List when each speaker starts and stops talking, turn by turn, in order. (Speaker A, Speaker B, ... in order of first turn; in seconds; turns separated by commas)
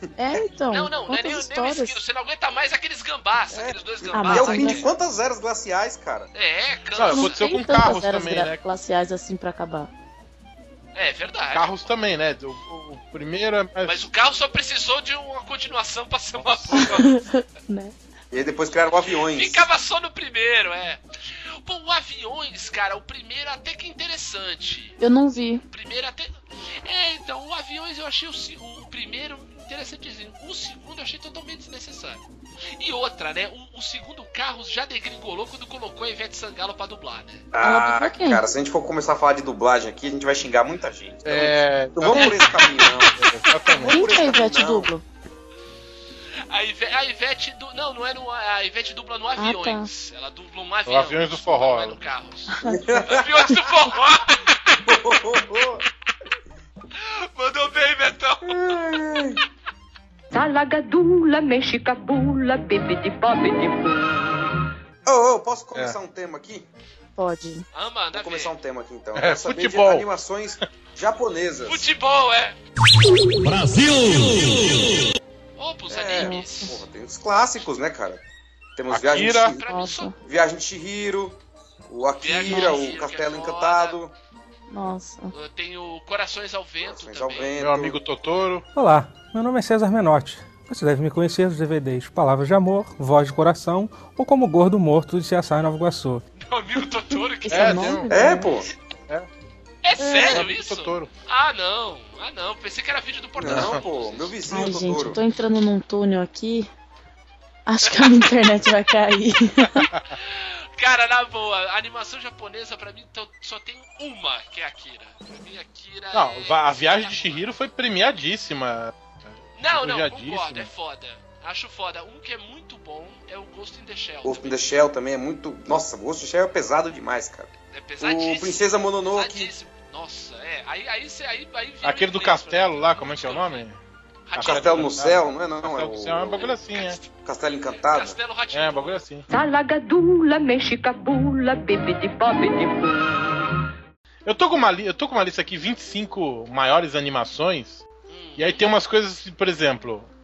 Speaker A: 0.2-2.0, Speaker B: 0.7-4.9, Speaker C: 3.5-6.3, Speaker A: 4.1-4.8, Speaker B: 6.3-7.4, Speaker D: 7.0-8.6, Speaker A: 7.1-9.9, Speaker B: 10.9-11.7, Speaker D: 11.5-14.1, Speaker B: 13.8-17.1, Speaker D: 16.4-17.0, Speaker A: 16.8-17.9, Speaker C: 18.3-19.7, Speaker B: 19.3-21.0, Speaker B: 21.6-25.0, Speaker A: 25.0-25.6, Speaker B: 25.7-32.2, Speaker B: 32.8-37.5, Speaker C: 37.5-43.2, Speaker A: 37.6-38.4, Speaker D: 41.2-44.0, Speaker B: 42.1-43.1, Speaker A: 43.8-45.0, Speaker C: 43.8-44.9, Speaker B: 46.5-55.1, Speaker A: 49.4-49.9, Speaker D: 50.9-52.0, Speaker A: 52.6-52.9, Speaker C: 52.6-53.7, Speaker C: 54.9-55.9, Speaker B: 57.0-58.8, Speaker C: 58.5-59.4, Speaker E: 60.3-64.0, Speaker C: 65.0-66.7, Speaker A: 67.2-67.7, Speaker B: 67.7-68.5, Speaker C: 68.1-71.9, Speaker D: 69.2-70.1, Speaker B: 71.7-72.6, Speaker B: 74.0-74.8, Speaker B: 75.6-76.8, Speaker C: 75.9-78.2, Speaker A: 76.2-76.8, Speaker C: 78.8-79.6, Speaker D: 78.9-79.5, Speaker B: 79.5-80.1, Speaker A: 79.6-80.2, Speaker C: 80.2-84.2, Speaker B: 82.2-84.0, Speaker A: 82.5-82.8, Speaker A: 84.7-85.3, Speaker B: 85.3-87.5, Speaker C: 86.8-88.0, Speaker D: 87.6-88.7, Speaker F: 88.7-96.2, Speaker B: 96.4-97.9, Speaker A: 97.4-98.5, Speaker D: 97.5-98.1, Speaker C: 98.1-98.7, Speaker B: 99.8-104.4, Speaker A: 100.0-100.4, Speaker D: 100.3-101.1, Speaker C: 103.4-105.2, Speaker D: 103.5-103.8, Speaker A: 104.5-106.7, Speaker A: 107.7-109.9, Speaker B: 107.8-108.3, Speaker B: 110.2-117.5, Speaker D: 116.1-120.7, Speaker B: 119.6-124.7, Speaker C: 124.2-129.5, Speaker B: 127.7-133.7, Speaker D: 131.8-133.8, Speaker B: 134.3-134.9, Speaker D: 134.3-137.0, Speaker C: 134.4-136.5, Speaker B: 136.4-139.0, Speaker C: 137.2-138.2, Speaker D: 138.5-139.3, Speaker E: 139.3-142.9, Speaker D: 144.2-147.8, Speaker B: 148.1-148.7, Speaker D: 148.4-150.1